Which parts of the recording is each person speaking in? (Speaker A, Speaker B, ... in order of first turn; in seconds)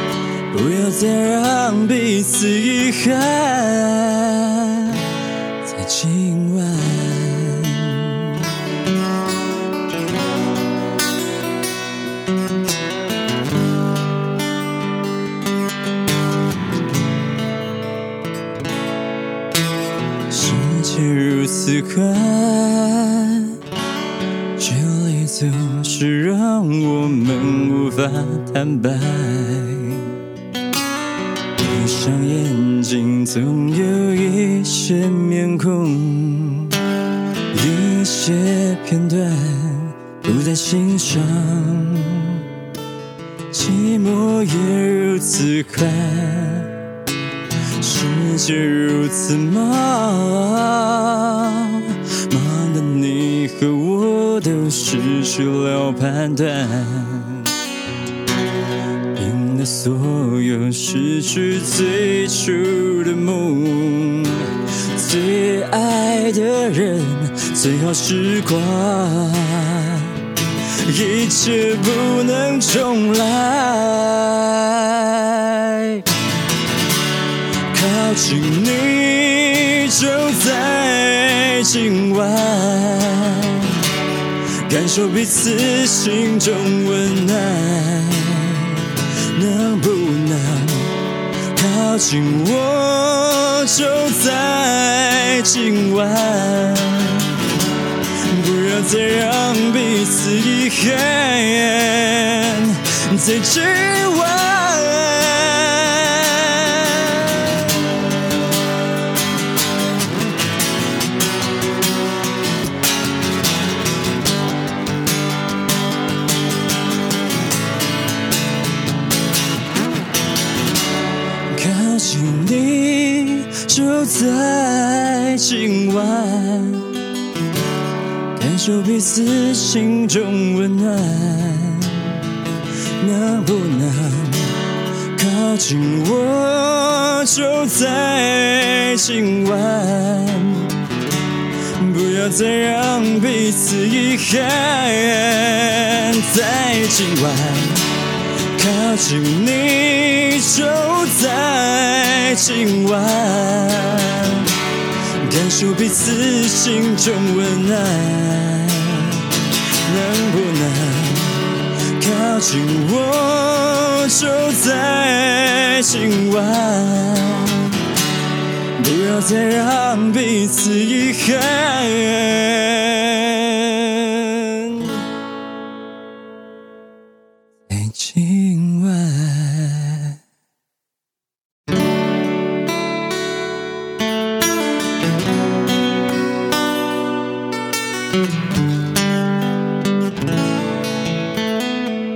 Speaker A: 0.5-5.0, 5.6-8.3, 20.3-23.5, 24.6-30.1, 31.6-36.7, 37.5-42.4, 43.5-46.7, 47.8-57.5, 59.1-70.1, 70.8-76.0, 77.7-83.7, 84.7-88.8, 89.3-90.9, 91.5-97.3, 98.3-107.2, 121.5-126.9, 128.3-132.1, 133.0-134.6, 135.2-140.7, 141.8-147.8, 148.6-154.5, 155.2-159.2, 159.9-167.8, 168.8-175.0, 177.7-180.1